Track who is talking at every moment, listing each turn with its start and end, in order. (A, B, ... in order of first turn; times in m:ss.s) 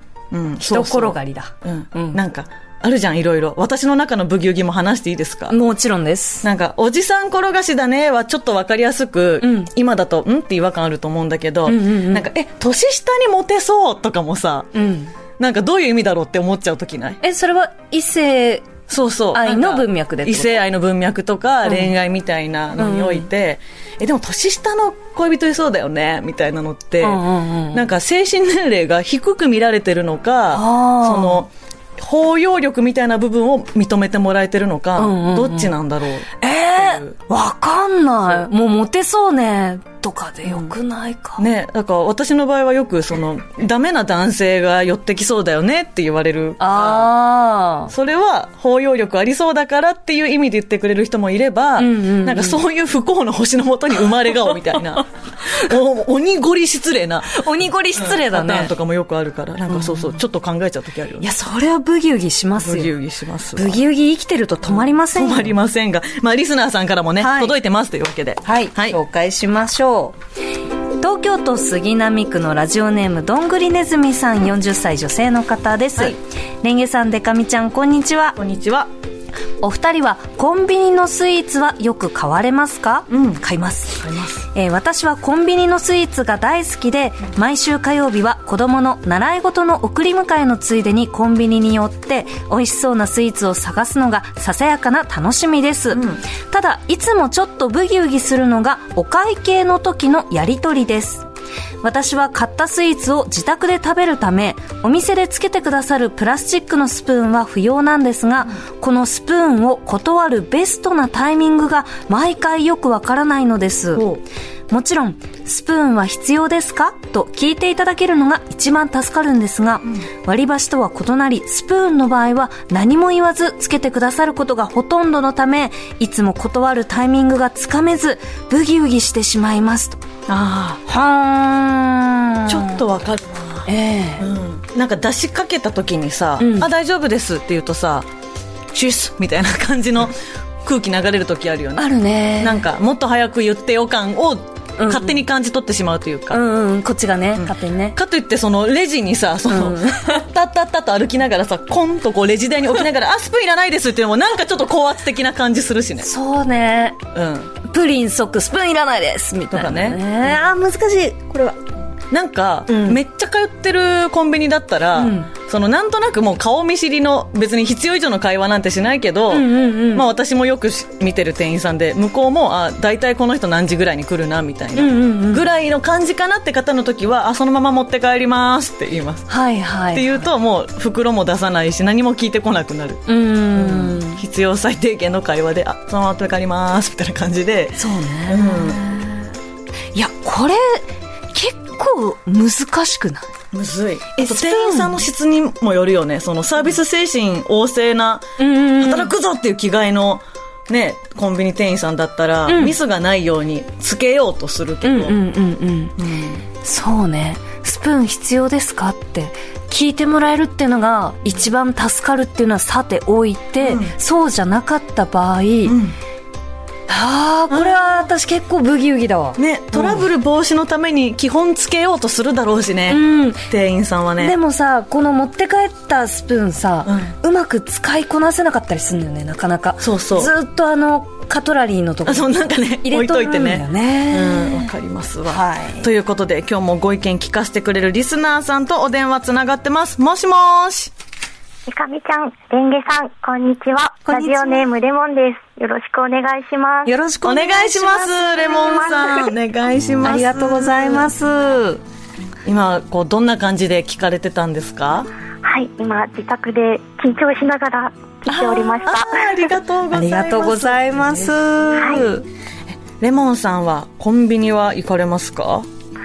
0:00.3-0:05.6 A
0:00.6-0:02.2 B
0:05.5-0:06.5 B
0:06.4-0:14.7 A
0:09.4-0:09.7 B
0:11.7-0:12.3 B
0:14.7-0:15.1 B
0:15.4-0:17.2 A
0:17.2-0:18.7 B
0:18.9-0:37.2 A
0:19.3-0:20.6 B
0:21.7-0:21.9 B
0:22.8-0:23.3 B
0:27.0-0:27.8 B
0:30.5-0:31.4 B
0:35.0-0:35.7 B
0:36.4-0:41.5 B
0:40.4-0:40.7 A
0:41.4-0:47.1 A
0:46.6-0:47.9 B
0:47.9-1:01.3 A
0:51.8-0:52.6 B
0:57.3-0:58.7 B
0:59.7-1:00.2 B
1:01.2-1:02.9 B
1:02.6-1:03.8 A
1:03.6-1:05.5 B
1:04.7-1:09.0 A
1:07.2-1:07.6 B
1:08.4-1:10.2 B
1:11.0-1:18.4 B
1:18.4-1:18.9 A
1:19.6-1:41.2 B
1:23.1-1:23.4 A
1:24.0-1:24.4 A
1:35.9-1:36.2 A
1:41.8-1:54.1 B
1:54.0-1:54.2 A
1:54.7-2:10.0 B
2:10.3-2:10.8 A
2:10.9-2:12.8 B
2:12.5-2:18.1 A
2:13.7-2:14.3 B
2:16.4-2:16.7 B
2:18.7-2:21.9 A
2:21.8-2:22.6 B
2:22.4-2:26.4 A
2:24.8-2:25.2 B
2:26.3-2:28.0 B
2:27.4-2:36.1 A
2:29.5-2:30.2 B
2:36.0-2:37.0 B
2:37.1-2:37.5 A
2:37.6-2:41.6 B
2:39.5-2:40.0 A
2:42.1-2:59.3 A
2:42.7-2:43.0 B
2:45.0-2:45.3 B
2:49.3-2:50.1 B
2:54.8-2:55.4 B
2:59.3-3:00.2 B
2:59.9-3:03.0 A
3:03.1-3:04.2 B
3:03.6-3:08.8 A
3:07.8-3:09.3 B
3:10.0-3:13.3 B
3:13.5-3:25.2 A
3:14.2-3:15.0 B
3:18.4-3:19.1 B
3:22.5-3:22.8 B
3:24.8-3:26.0 B
3:26.0-3:26.4 A
3:26.6-3:35.8 B
3:33.6-3:33.9 A
3:35.6-3:36.0 A
3:36.9-3:40.1 B
3:37.5-3:37.8 A
3:39.4-3:44.4 A
3:42.9-3:43.5 B
3:44.2-3:54.7 B
3:46.9-3:47.1 A
3:49.8-3:50.3 A
3:52.0-4:00.9 A
3:55.3-3:55.9 B
4:01.7-4:06.9 C
4:04.1-4:04.7 B
4:06.8-4:08.9 B
4:07.2-4:11.1 A
4:08.5-4:09.3 C
4:10.0-4:11.8 B
4:12.5-4:15.1 A
4:15.4-4:19.4 C
4:18.3-4:21.9 A
4:19.9-4:22.2 B
4:21.8-4:22.0 C
4:22.7-4:25.7 A